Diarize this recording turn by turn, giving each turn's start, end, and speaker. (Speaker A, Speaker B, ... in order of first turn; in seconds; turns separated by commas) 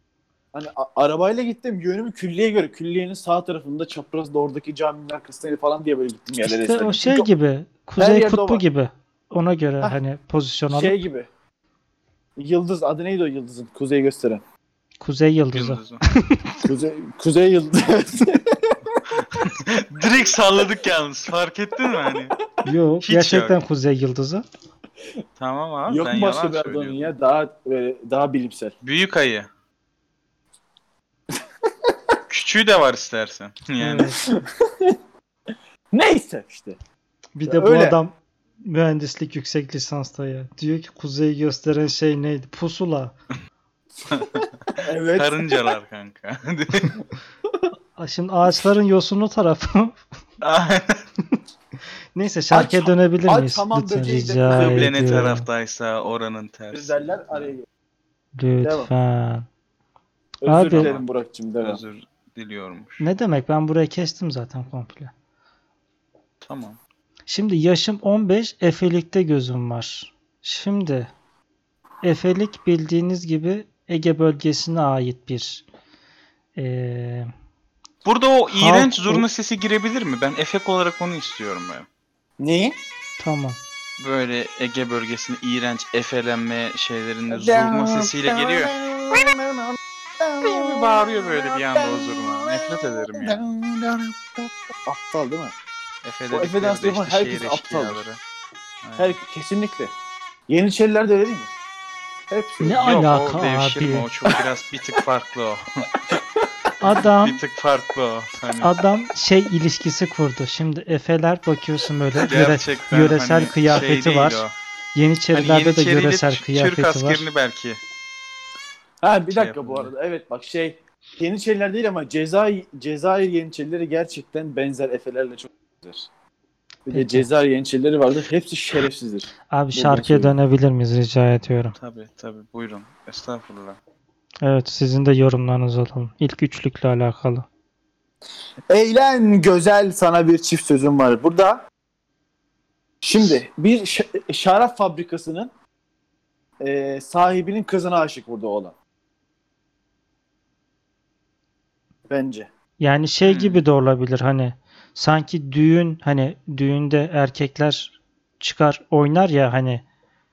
Speaker A: 0.5-7.3, Speaker B: 6.4-11.0, Speaker A: 8.0-8.6, Speaker A: 10.7-11.3, Speaker A: 12.4-14.4, Speaker B: 15.0-16.6, Speaker C: 15.5-16.0, Speaker A: 16.6-19.0, Speaker C: 19.2-22.3, Speaker B: 22.7-24.4, Speaker C: 23.0-23.6, Speaker C: 25.4-27.1, Speaker A: 25.9-28.8, Speaker C: 28.8-29.5, Speaker C: 32.3-34.1, Speaker B: 33.8-34.2, Speaker A: 34.2-35.0, Speaker A: 35.9-36.8, Speaker B: 37.4-43.1, Speaker A: 37.5-38.0, Speaker C: 44.1-44.5, Speaker A: 44.2-45.6, Speaker C: 45.1-46.9, Speaker B: 48.0-50.0, Speaker C: 50.4-51.0, Speaker B: 52.1-55.5, Speaker A: 52.5-55.0, Speaker C: 54.5-57.5, Speaker A: 56.7-57.7, Speaker B: 58.4-59.5, Speaker A: 58.6-58.9, Speaker A: 60.4-61.8, Speaker B: 60.5-60.9, Speaker C: 60.7-61.0, Speaker C: 61.6-63.1, Speaker B: 63.0-65.1, Speaker C: 66.4-66.8, Speaker B: 67.3-71.1, Speaker B: 72.0-75.6, Speaker B: 76.6-77.3, Speaker C: 78.0-81.9, Speaker B: 78.5-79.2, Speaker A: 82.4-82.8, Speaker B: 83.2-83.6, Speaker C: 84.0-88.7, Speaker A: 87.3-95.6, Speaker C: 90.4-93.4, Speaker C: 96.0-98.2, Speaker A: 96.3-98.0, Speaker C: 98.8-99.2, Speaker A: 99.0-99.9, Speaker A: 100.5-101.5, Speaker A: 102.3-102.9, Speaker B: 102.6-104.1, Speaker C: 102.7-105.9, Speaker B: 106.8-107.4, Speaker C: 107.2-108.7, Speaker B: 108.6-114.4, Speaker C: 112.2-114.5, Speaker B: 115.0-117.3, Speaker C: 115.3-117.8, Speaker A: 119.0-126.1, Speaker C: 119.3-119.9, Speaker A: 126.9-130.3, Speaker B: 126.9-127.3, Speaker B: 129.5-131.8, Speaker C: 131.8-133.8, Speaker B: 134.4-137.5, Speaker A: 138.7-141.6, Speaker A: 143.0-145.5, Speaker A: 146.6-148.8, Speaker A: 152.1-152.5, Speaker B: 152.8-159.8, Speaker C: 153.2-153.6